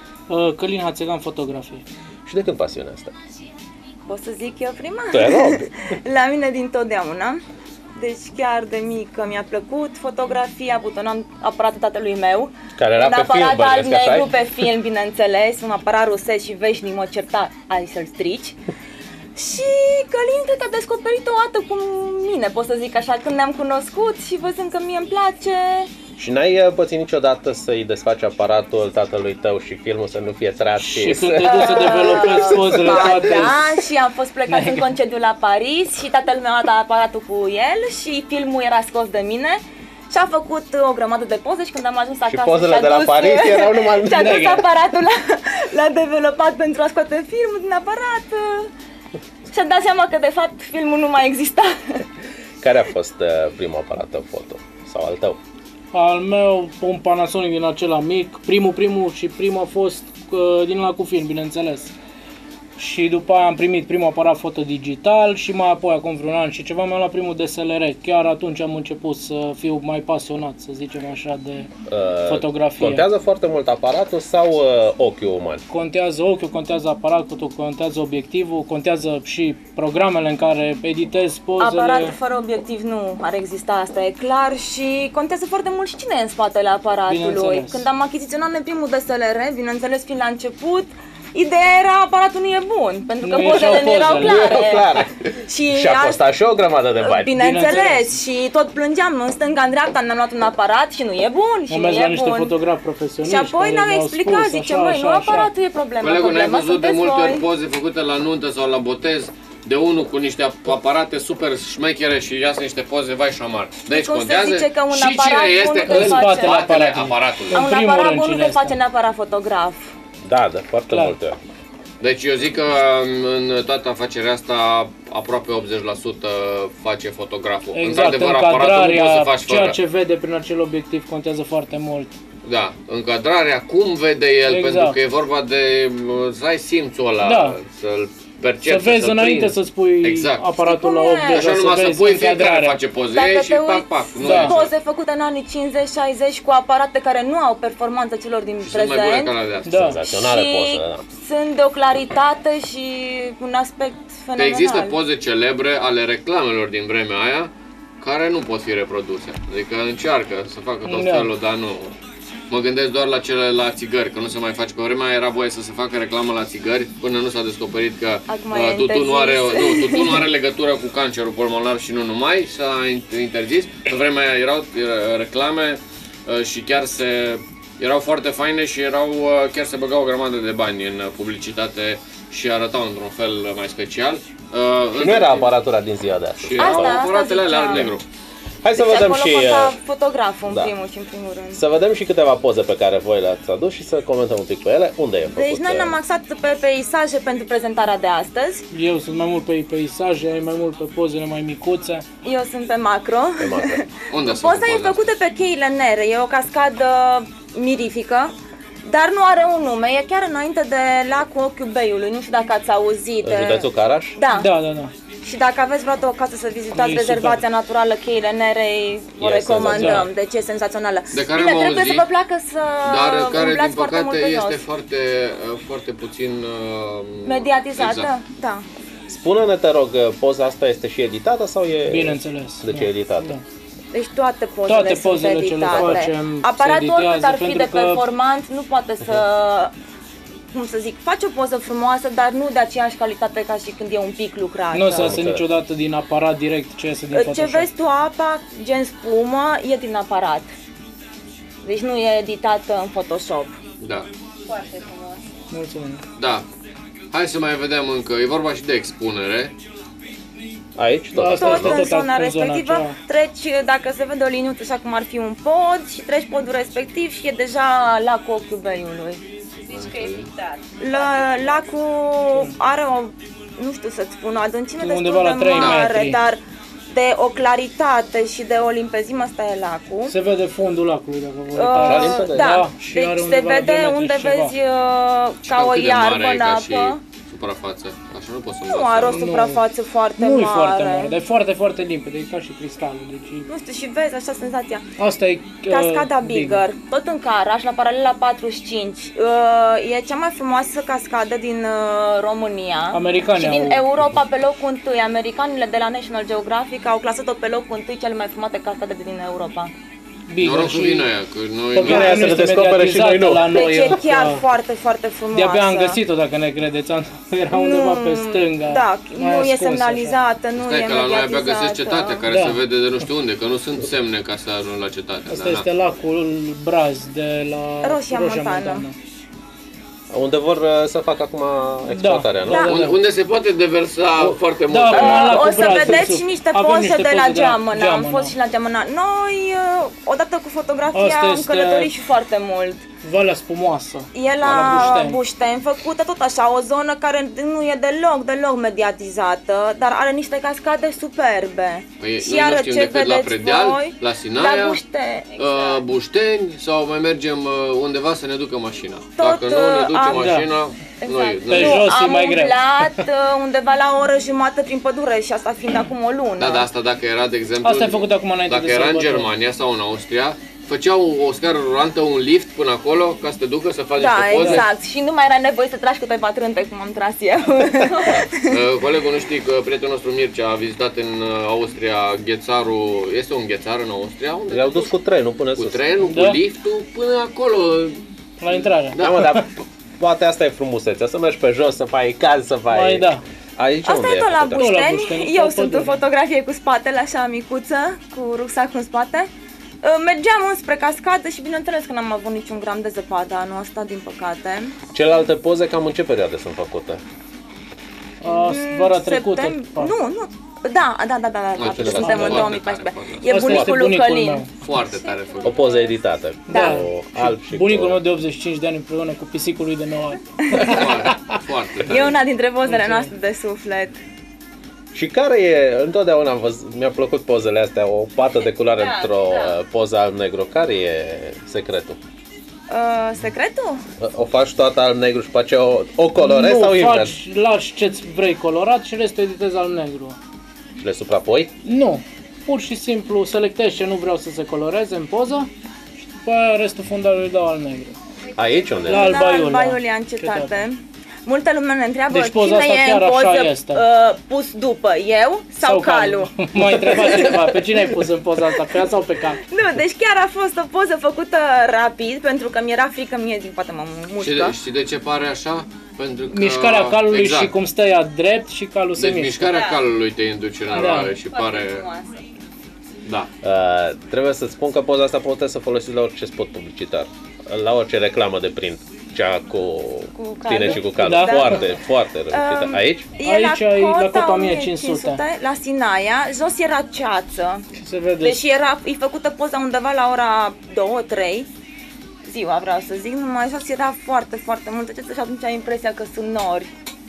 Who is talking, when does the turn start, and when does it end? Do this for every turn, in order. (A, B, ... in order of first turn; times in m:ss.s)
0:00.3-0:01.8 A
0:02.2-0:03.1 B
0:04.1-0:07.4 C
0:05.1-0:05.7 B
0:08.0-0:18.6 C
0:12.8-0:14.3 B
0:19.4-0:25.9 C
0:26.2-0:33.4 B
0:30.8-0:33.5 A
0:31.4-0:48.7 C
0:34.5-0:34.9 A
0:42.3-0:44.4 B
0:44.1-0:44.6 A
0:49.5-0:52.0 C
0:52.6-0:55.4 B
0:55.9-1:01.9 A
1:02.8-1:11.7 A
1:11.9-1:15.6 B
1:12.3-1:13.0 A
1:15.7-1:22.1 A
1:21.6-1:36.2 C
1:27.1-1:27.8 A
1:33.2-1:34.6 A
1:34.1-1:37.3 B
1:37.0-1:42.5 C
1:37.3-1:38.1 A
1:41.7-1:45.5 A
1:43.2-1:47.4 C
1:46.0-1:57.7 D
1:53.9-1:56.6 C
1:55.9-1:58.7 A
1:57.5-1:59.9 C
2:00.2-2:01.4 B
2:02.0-2:09.8 D
2:07.7-2:12.1 A
2:12.4-2:20.4 D
2:14.4-2:15.0 A
2:17.2-2:17.6 A
2:18.6-2:22.8 A
2:20.6-2:21.5 C
2:21.2-2:24.7 D
2:23.1-2:29.3 C
2:24.2-2:24.5 A
2:28.6-2:29.8 D
2:29.6-2:30.0 A
2:29.7-2:31.0 B
2:30.0-2:35.0 C
2:34.4-2:42.0 D
2:40.8-2:41.3 A
2:42.5-3:05.5 D
2:48.3-2:50.2 C
3:05.0-3:07.0 B
3:06.4-3:08.0 D
3:06.6-3:07.9 C
3:08.6-3:09.8 B
3:08.7-3:11.6 C
3:10.5-3:10.7 B
3:11.5-3:16.0 B
3:15.3-3:18.6 C
3:18.7-3:22.0 A
3:22.2-3:28.3 C
3:23.4-3:23.8 B
3:24.1-3:25.0 D
3:28.8-3:34.5 C
3:33.2-3:34.2 B
3:34.3-3:34.9 A
3:35.2-3:44.6 C
3:36.7-3:37.4 A
3:39.2-3:40.1 B
3:39.7-3:40.0 A
3:41.1-3:42.1 D
3:42.8-3:48.1 D
3:47.2-3:48.6 C
3:49.1-3:53.3 B
3:51.8-3:53.4 A
3:53.9-3:59.7 C
3:54.6-3:58.0 A
3:55.7-3:56.0 B
4:00.5-4:05.2 C
4:04.7-4:07.7 A
4:05.0-4:05.4 B
4:07.1-4:10.5 C
4:11.6-4:13.6 C
4:13.8-4:14.1 D
4:14.5-4:15.2 C
4:15.5-4:16.0 A
4:16.2-4:16.4 D
4:17.1-4:19.5 D
4:20.8-4:21.9 B
4:21.1-4:23.0 A
4:21.4-4:29.2 C
4:29.7-4:30.3 D
4:30.8-4:40.1 C
4:34.8-4:36.2 A
4:35.5-4:35.8 D
4:40.1-4:44.5 A
4:41.5-4:47.0 C
4:41.8-4:42.6 B
4:45.4-4:49.2 D
4:48.7-4:51.1 C
4:49.1-4:49.6 A
4:50.2-4:53.5 A
4:53.5-4:54.8 C
4:55.0-4:56.6 A
4:55.7-5:09.7 C
5:02.9-5:03.9 A
5:10.3-5:11.1 A
5:10.4-5:12.3 D
5:11.7-5:14.4 A
5:11.8-5:13.6 B
5:13.5-5:16.0 C
5:15.3-5:20.2 A
5:17.5-5:22.2 C
5:20.6-5:25.7 D
5:22.3-5:22.6 A
5:25.3-5:28.9 A
5:27.8-5:28.9 C
5:30.1-5:32.7 B
5:31.9-5:33.0 A
5:32.5-5:32.8 C
5:32.6-5:35.6 D
5:34.7-5:38.3 A
5:34.9-5:42.8 C
5:40.9-5:41.9 A
5:43.0-5:45.2 A
5:44.1-5:55.8 C
5:44.4-5:44.9 D
5:52.0-5:54.8 D
5:55.4-6:01.8 D
5:59.2-6:00.3 C
6:00.1-6:00.5 A
6:01.0-6:06.7 C
6:01.5-6:03.0 A
6:06.4-6:14.7 D
6:07.6-6:09.3 A
6:14.0-6:18.6 C
6:17.9-6:24.9 D
6:24.5-6:25.8 B
6:25.5-6:29.2 D
6:26.0-6:26.4 A
6:28.4-6:29.4 A
6:29.0-6:34.7 B
6:32.7-6:33.2 A
6:33.8-6:39.3 C
6:34.6-6:36.0 A
6:39.8-6:44.7 C
6:44.9-6:47.0 B
6:48.2-6:49.9 A
6:48.2-6:54.5 C
6:51.6-6:53.5 D
6:51.7-6:52.5 B
6:53.2-6:54.5 A
6:54.6-6:55.9 D
6:55.3-6:55.9 C
6:55.4-6:58.0 B
6:56.5-7:01.4 A
6:56.5-6:56.8 C
7:00.4-7:00.8 C
7:00.6-7:02.2 D
7:01.8-7:04.0 C
7:02.7-7:03.1 A
7:04.9-7:12.0 B
7:08.9-7:09.5 C
7:12.7-7:13.8 C
7:14.0-7:17.1 B
7:16.2-7:20.2 A
7:20.8-7:21.5 B
7:21.6-7:25.5 A
7:26.0-7:28.0 A
7:28.4-7:29.2 B
7:28.8-7:30.6 A
7:28.8-7:37.2 C
7:32.1-7:33.8 A
7:35.6-7:39.4 A
7:39.4-7:44.6 C
7:44.2-7:47.5 D
7:46.3-7:49.5 A
7:49.0-7:51.8 D
7:49.4-7:49.8 C
7:50.7-7:51.1 A
7:50.8-7:52.2 C
7:53.4-8:03.1 B
8:00.2-8:01.7 C
8:00.7-8:01.6 A
8:02.3-8:07.6 C
8:03.2-8:05.2 A
8:07.8-8:08.4 A
8:08.2-8:11.5 C
8:12.2-8:16.7 C